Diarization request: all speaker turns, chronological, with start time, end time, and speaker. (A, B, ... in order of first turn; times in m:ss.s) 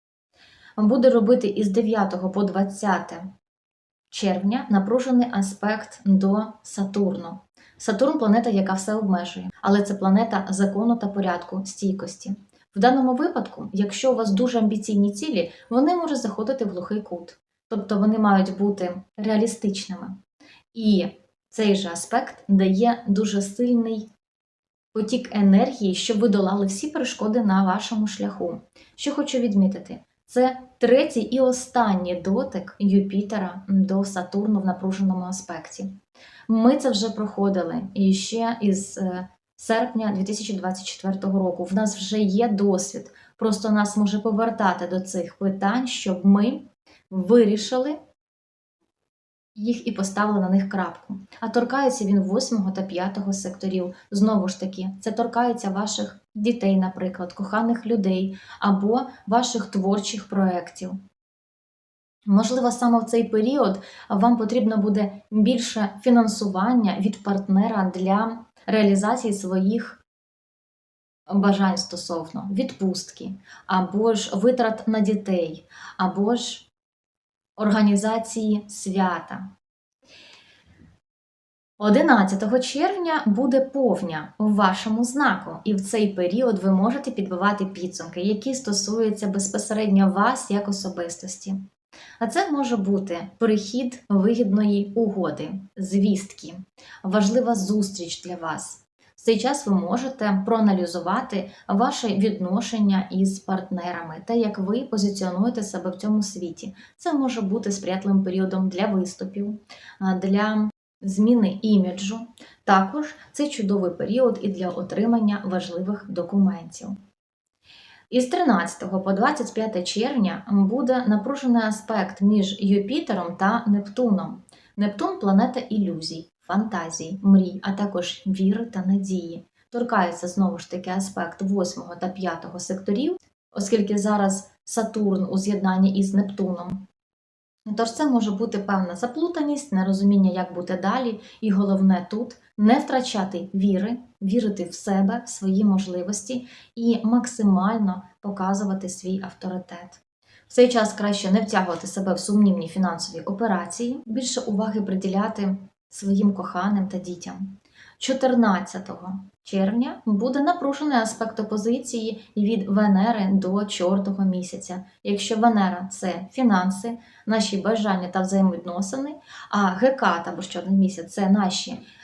0:00.8-0:03.3 A
0:04.1-0:20.2 A
0:20.7-0:24.1 A
0:24.9-0:36.0 A
0:36.5-0:48.0 A
0:49.5-1:01.0 A
1:02.3-1:10.0 A
1:11.3-1:16.7 A
1:17.6-1:19.5 A
1:21.8-1:31.6 A
1:32.2-1:57.0 A
1:58.1-2:16.9 A
2:17.6-2:51.8 A